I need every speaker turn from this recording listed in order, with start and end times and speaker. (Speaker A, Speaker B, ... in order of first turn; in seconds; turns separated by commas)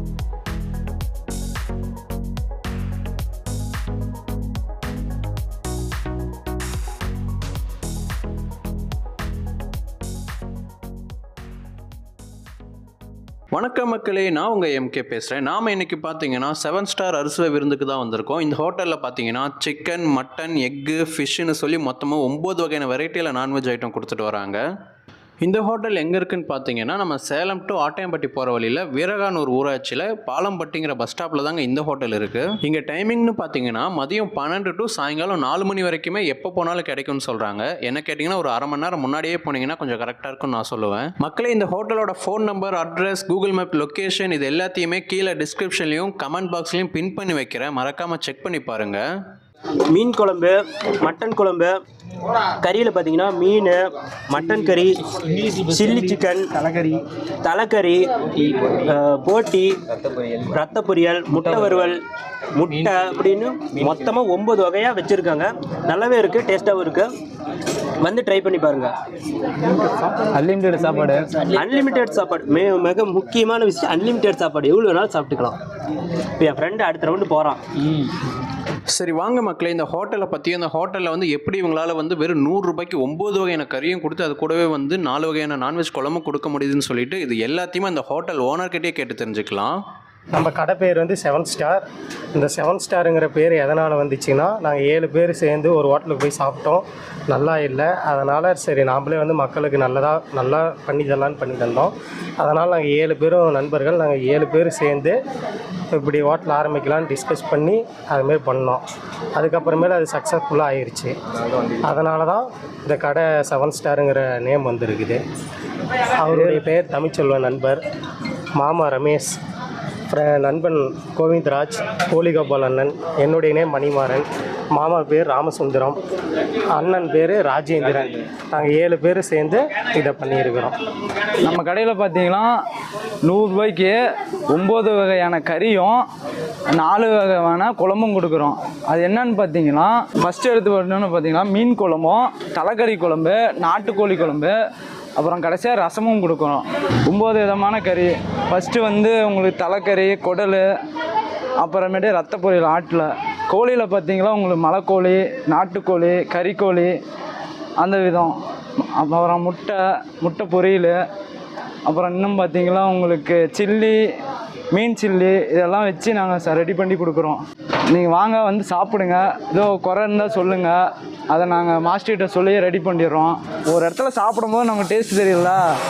Speaker A: 13.5-24.6, Speaker A: 25.4-49.0, Speaker B: 49.9-51.7, Speaker B: 52.6-56.9, Speaker B: 57.4-58.0, Speaker B: 58.6-59.7, Speaker B: 60.5-62.0, Speaker B: 62.6-67.1, Speaker B: 68.0-68.9, Speaker C: 70.4-71.4, Speaker B: 71.5-75.6, Speaker B: 76.4-77.6, Speaker A: 78.9-89.8, Speaker D: 90.3-91.8, Speaker D: 92.3-105.1, Speaker D: 105.9-108.8, Speaker D: 109.3-111.1, Speaker D: 111.8-115.2, Speaker D: 116.2-117.8, Speaker D: 118.6-119.3, Speaker D: 120.1-126.0, Speaker D: 126.7-130.7, Speaker C: 131.4-132.5, Speaker C: 133.2-134.0, Speaker C: 134.5-136.0, Speaker C: 136.7-144.5, Speaker C: 145.2-150.6, Speaker C: 151.6-156.9, Speaker C: 157.8-158.3, Speaker C: 159.0-160.9, Speaker C: 161.8-164.0, Speaker C: 164.7-167.4, Speaker C: 167.9-170.7, Speaker C: 171.3-175.6